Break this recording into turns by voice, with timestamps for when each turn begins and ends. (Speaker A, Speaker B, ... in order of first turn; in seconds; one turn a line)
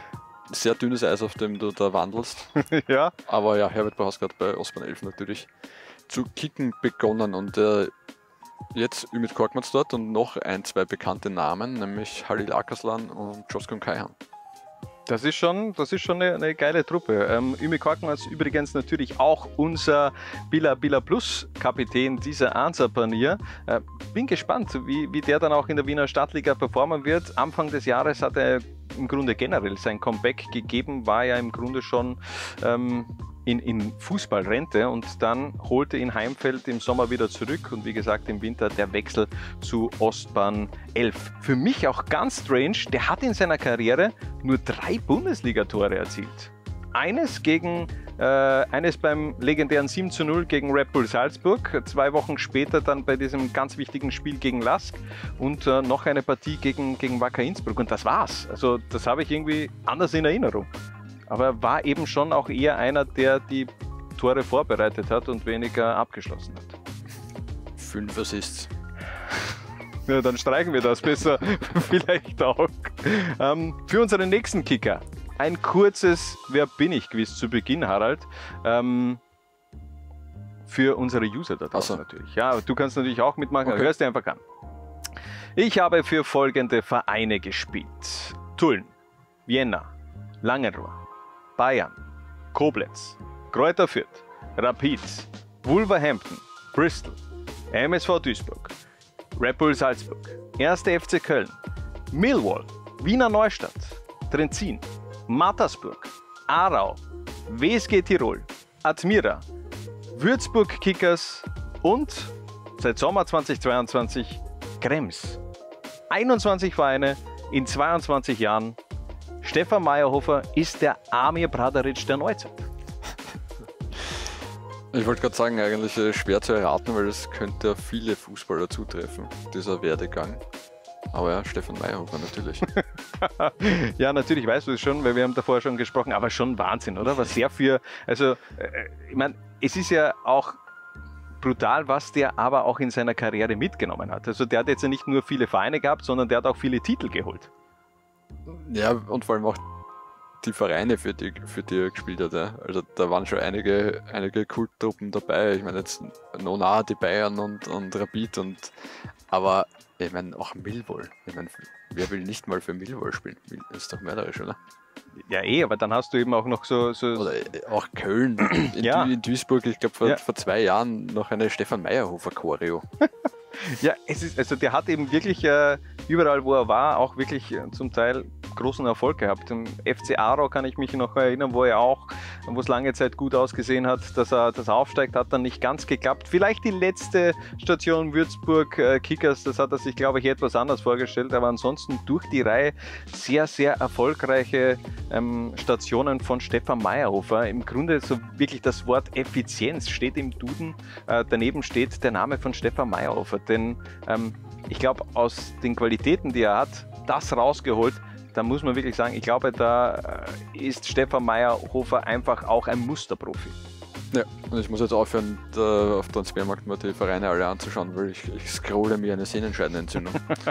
Speaker A: 0.5-2.6
Speaker B: 2.6-3.1
Speaker A: 3.3-5.5
Speaker A: 6.1-7.9
Speaker A: 8.7-14.1
Speaker B: 15.1-60.7
Speaker B: 61.3-66.8
Speaker A: 67.8-68.7
Speaker B: 70.1-79.2
Speaker B: 80.7-84.4
Speaker A: 81.7-82.0
Speaker A: 83.6-83.9
Speaker B: 85.5-88.9
Speaker B: 89.5-89.9
Speaker B: 90.4-91.0
Speaker B: 91.6-92.0
Speaker B: 92.5-97.2
Speaker B: 97.7-98.7
Speaker B: 99.3-101.6
Speaker B: 102.1-109.4
Speaker B: 110.1-115.4
Speaker B: 116.1-118.8
Speaker B: 119.4-122.6
Speaker A: 124.9-130.4
Speaker A: 131.1-132.7
Speaker B: 132.8-140.6
Speaker B: 141.4-147.5
Speaker A: 148.5-149.6
Speaker A: 150.4-158.7
Speaker A: 159.3-164.6
Speaker B: 165.2-167.3
Speaker A: 167.1-172.8
Speaker B: 168.6-169.1
Speaker B: 173.6-213.6
Speaker A: 214.1-220.3